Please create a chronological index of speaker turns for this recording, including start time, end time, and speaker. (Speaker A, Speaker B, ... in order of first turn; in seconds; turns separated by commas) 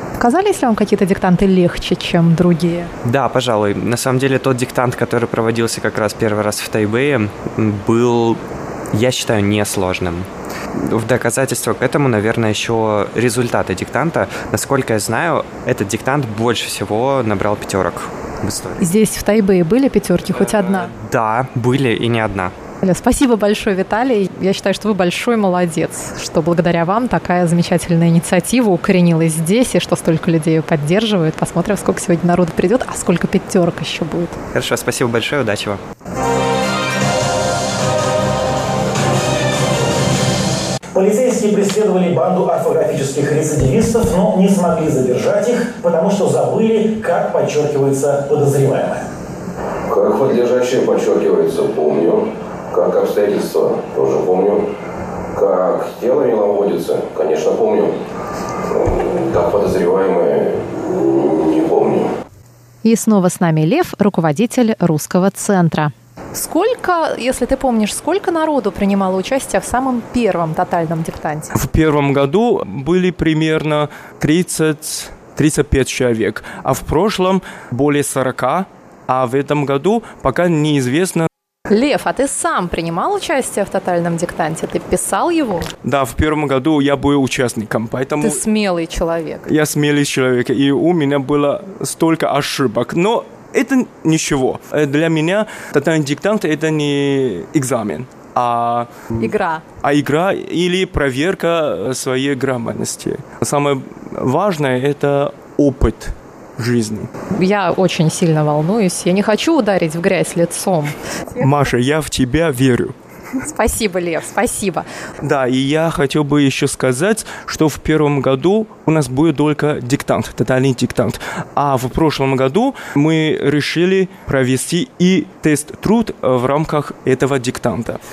Speaker A: 0.2-2.9, Speaker B: 3.0-8.4, Speaker B: 8.9-18.9, Speaker A: 18.8-20.9, Speaker B: 20.9-22.5, Speaker A: 22.8-34.4, Speaker B: 34.5-35.8, Speaker C: 40.9-49.0, Speaker D: 49.9-54.7, Speaker D: 55.3-58.0, Speaker D: 58.7-62.1, Speaker A: 62.8-71.5, Speaker E: 71.5-81.3, Speaker A: 81.7-85.7, Speaker E: 85.8-88.4, Speaker A: 88.2-89.5, Speaker E: 89.5-99.3, Speaker A: 99.2-99.6, Speaker E: 99.8-107.1, Speaker A: 107.3-111.0, Speaker E: 111.4-113.0, Speaker A: 113.5-114.9, Speaker E: 115.2-128.0